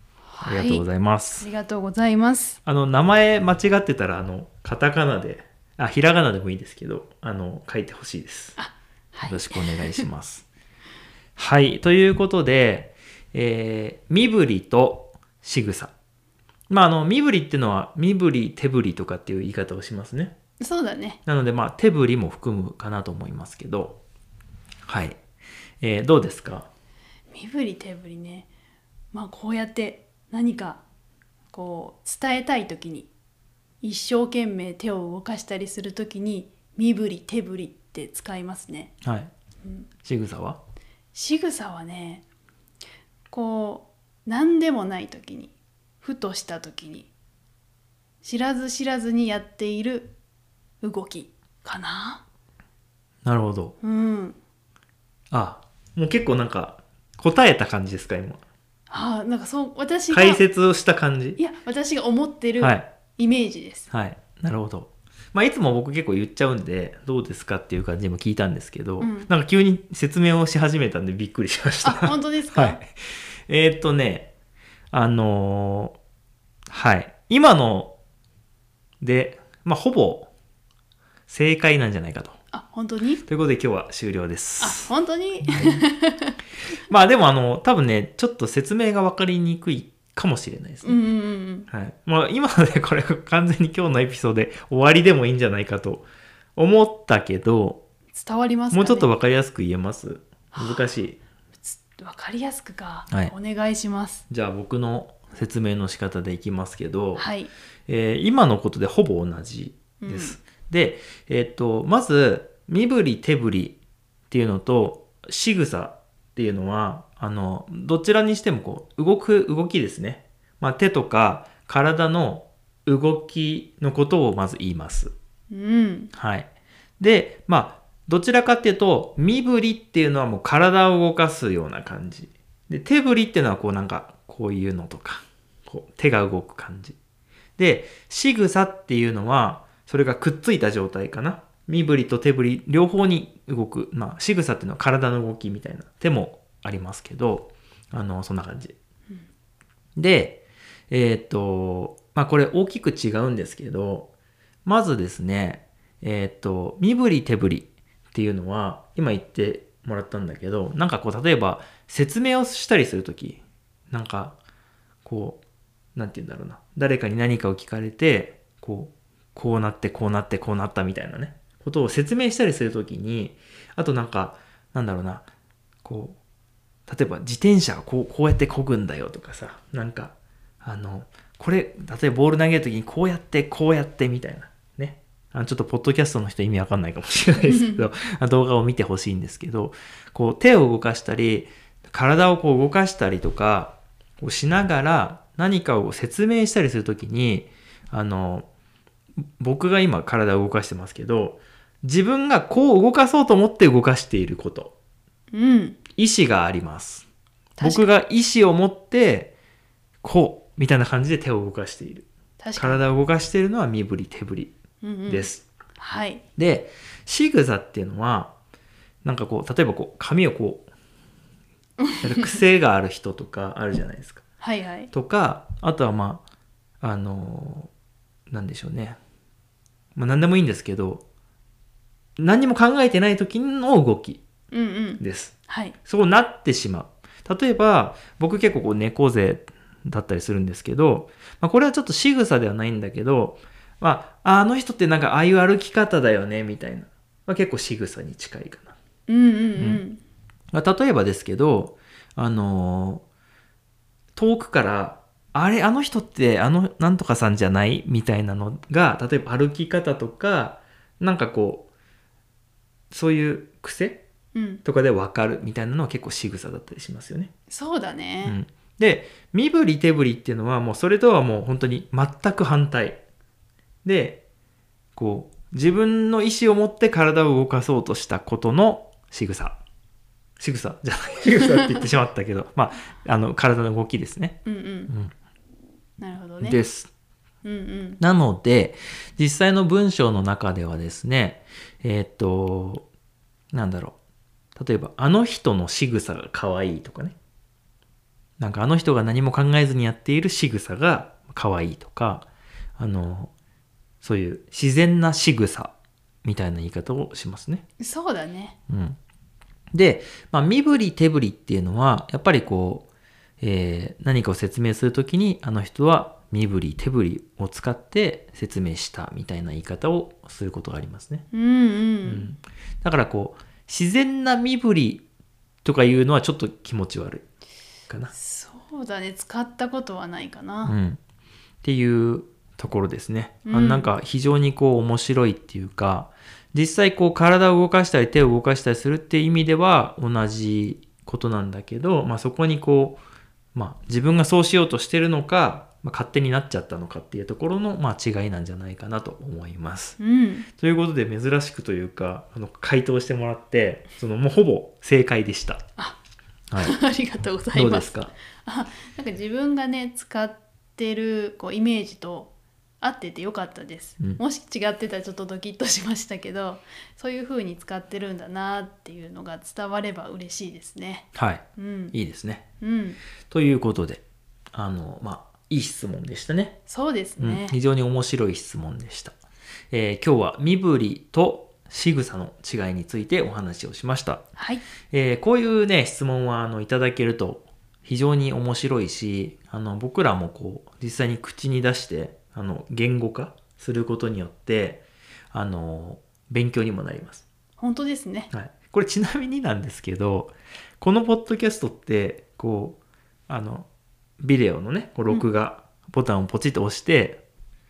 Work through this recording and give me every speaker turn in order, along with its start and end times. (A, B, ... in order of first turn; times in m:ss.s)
0:00.3-0:00.9 A
0:00.4-0:01.5 B
0:01.4-0:02.6 A
0:02.6-0:08.6 B
0:08.6-0:09.9 A
0:09.2-0:10.5 B
0:11.4-0:15.9 B
0:16.7-0:20.4 B
0:20.6-0:21.2 A
0:21.3-0:24.0 B
0:24.9-0:25.2 B
0:25.8-0:26.7 B
0:27.3-0:28.5 A
0:29.1-0:30.8 A
0:31.5-0:33.1 A
0:33.8-0:38.9 A
0:39.0-0:39.3 B
0:40.0-0:40.6 B
0:41.1-0:42.2 A
0:43.3-0:47.1 A
0:48.2-0:50.1 A
0:50.8-0:52.2 A
0:53.2-0:53.8 B
0:53.8-0:54.4 A
0:55.3-0:58.4 B
0:58.9-1:00.4 A
1:00.1-1:01.4 B
1:01.4-1:03.9 A
1:02.6-1:02.9 B
1:03.9-1:12.9 B
1:09.0-1:09.3 A
1:11.8-1:12.8 A
1:13.5-1:14.3 B
1:14.9-1:16.0 B
1:16.7-1:17.9 B
1:19.0-1:20.3 B
1:21.3-1:22.4 B
1:22.5-1:23.2 A
1:23.2-1:24.9 B
1:24.6-1:26.4 A
1:25.4-1:25.8 B
1:26.9-1:31.0 B
1:30.8-1:31.7 A
1:31.7-1:36.1 B
1:36.6-1:37.8 B
1:38.1-1:39.1 A
1:38.7-1:41.2 B
1:40.5-1:40.8 A
1:41.6-1:44.2 A
1:44.3-1:47.2 B
1:47.2-1:47.5 A
1:47.9-1:53.8 B
1:50.0-1:50.4 A
1:54.3-2:05.1 B
2:05.5-2:06.1 A
2:06.1-2:06.5 B
2:07.0-2:17.0 B
2:17.6-2:28.8 B
2:30.0-2:34.1 B
2:34.6-2:44.4 B
2:45.0-2:45.4 B
2:46.0-2:55.3 B
2:55.8-2:56.2 B
2:56.9-3:18.5 B
3:07.4-3:07.9 A
3:19.4-3:24.7 B
3:25.3-3:25.8 A
3:26.0-3:27.1 B
3:27.6-3:27.9 A
3:27.6-3:29.3 B
3:30.0-3:34.6 B
3:32.4-3:32.8 A
3:34.8-3:36.2 A
3:35.1-3:35.4 B
3:36.4-3:38.3 B
3:39.0-3:40.7 B
3:42.0-3:44.2 B
3:44.4-3:44.9 A
3:44.9-3:46.2 B
3:46.8-3:47.7 B
3:48.3-3:49.0 B
3:50.0-3:51.0 B
3:52.2-3:54.2 B
3:54.5-3:55.8 A
3:55.0-3:55.3 B
3:55.8-4:08.8 B
4:09.1-4:10.0 A
4:09.6-4:09.8 B
4:10.5-4:13.0 B
4:14.2-4:21.7 B
4:22.9-4:24.0 B
4:24.4-4:24.6 A
4:24.6-4:27.3 B
4:27.5-4:28.4 A
4:28.2-4:33.0 B
4:33.8-4:34.2 B
4:35.0-4:39.6 B
4:40.4-4:44.4 B
4:44.5-4:44.9 A
4:46.0-4:46.6 A
4:46.4-4:46.9 B
4:47.4-4:48.0 A
4:48.0-4:52.9 B
4:53.5-4:54.0 B
4:54.6-4:57.2 B
4:58.4-5:03.3 B
5:04.0-5:05.7 B
5:06.2-5:07.6 B
5:07.8-5:08.6 A
5:08.7-5:09.0 B
5:09.7-5:12.9 B
5:13.4-5:21.3 B
5:21.3-5:22.3 A
5:22.0-5:25.0 B
5:25.6-5:27.3 B
5:28.1-5:30.8 A
5:30.6-5:31.0 B
5:31.6-5:43.0 B
5:33.5-5:33.9 A
5:43.6-5:50.0 B
5:50.0-5:50.5 A
5:50.6-5:55.6 B
5:56.6-6:12.0 A
5:57.5-5:58.1 B
6:11.2-6:12.4 B
6:12.6-6:13.0 A
6:13.3-6:14.0 B
6:14.5-6:16.6 B
6:16.7-6:17.6 A
6:17.2-6:19.2 B
6:19.7-6:24.2 B
6:24.4-6:24.6 A
6:24.9-6:37.2 B
6:37.6-6:38.3 A
6:38.3-6:43.7 B
6:44.2-6:47.2 B